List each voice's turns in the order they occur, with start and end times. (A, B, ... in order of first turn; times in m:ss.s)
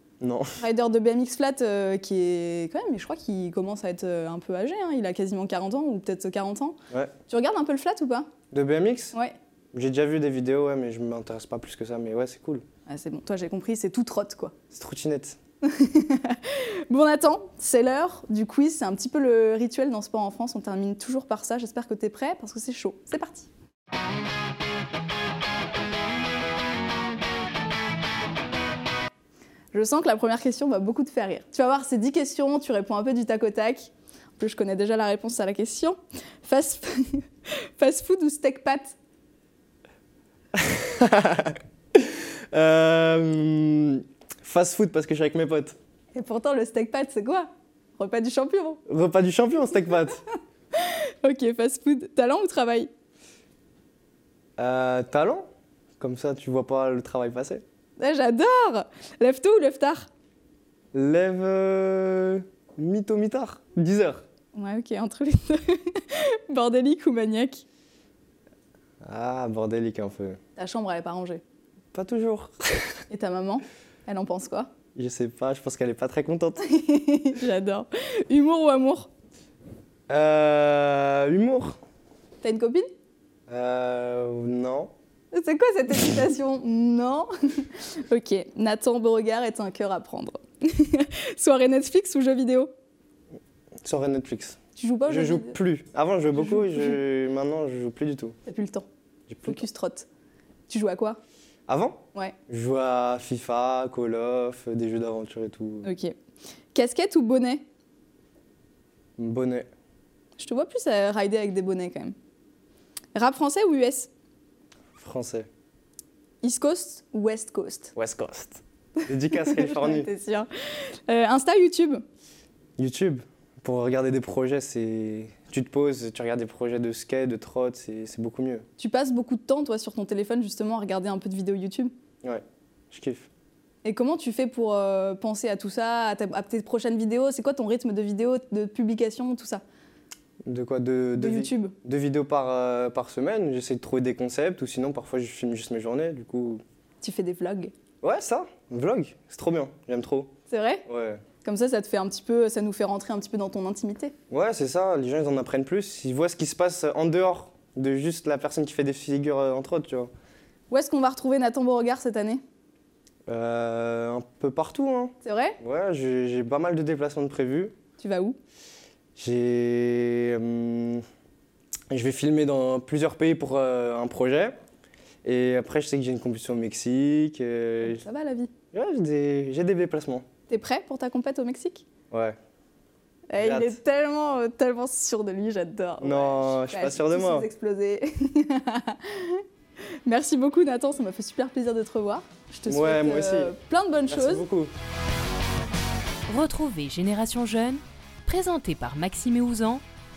0:00.2-0:00.6 A
0:00.6-0:08.3 B
0:08.5-0:09.1 A
0:09.7-0:12.6 A
0:12.9-0:14.6 B
0:14.7-0:15.4 A
0:15.6-0:23.5 B
0:29.7-0:39.0 B
0:40.5-0:45.8 A
0:46.1-0:48.8 B
0:48.9-0:50.2 A
0:50.7-0:52.9 B
0:54.6-0:55.5 A
0:56.0-0:57.6 A
0:58.0-1:00.1 B
1:00.9-1:04.2 A
1:04.5-1:07.6 B
1:09.0-1:10.4 A
1:10.6-1:11.4 B
1:11.9-1:12.9 A
1:13.1-1:14.7 B
1:15.0-1:16.6 A
1:16.6-1:19.1 B
1:20.1-1:21.8 A
1:22.4-1:22.9 B
1:23.5-1:24.9 A
1:25.3-1:32.7 B
1:33.8-1:38.4 A
1:34.8-1:35.6 B
1:36.4-1:37.0 B
1:38.5-1:38.9 B
1:39.3-1:39.6 A
1:39.4-1:40.1 B
1:40.7-1:41.2 B
1:41.7-1:45.9 A
1:45.8-1:46.1 B
1:46.7-1:47.6 B
1:49.2-1:49.7 A
1:50.4-1:52.2 B
1:53.2-1:54.1 B
1:55.0-1:55.5 A
1:56.4-1:57.9 B
1:58.0-2:00.1 A
1:59.3-2:02.0 B
2:02.8-2:08.6 A
2:08.8-2:11.9 B
2:12.2-2:13.3 A
2:13.8-2:19.6 B
2:20.4-2:26.6 A
2:21.2-2:21.8 B
2:27.0-2:27.7 B
2:28.0-2:30.3 A
2:30.5-2:30.8 B
2:30.9-2:31.2 A
2:31.4-2:34.2 B
2:34.3-2:40.1 A
2:40.7-2:42.4 B
2:43.3-2:47.8 A
2:45.2-2:45.6 B
2:48.0-2:48.4 B
2:49.2-2:51.0 A
2:51.9-2:54.6 A
2:55.2-2:58.0 A
2:57.8-2:58.5 B
2:58.7-3:00.3 A
3:00.5-3:01.8 B
3:02.1-3:02.4 A
3:03.3-3:09.4 B
3:03.4-3:03.8 A
3:06.0-3:07.5 A
3:10.1-3:14.5 B
3:12.7-3:13.5 A
3:14.1-3:14.7 A
3:16.3-3:19.8 C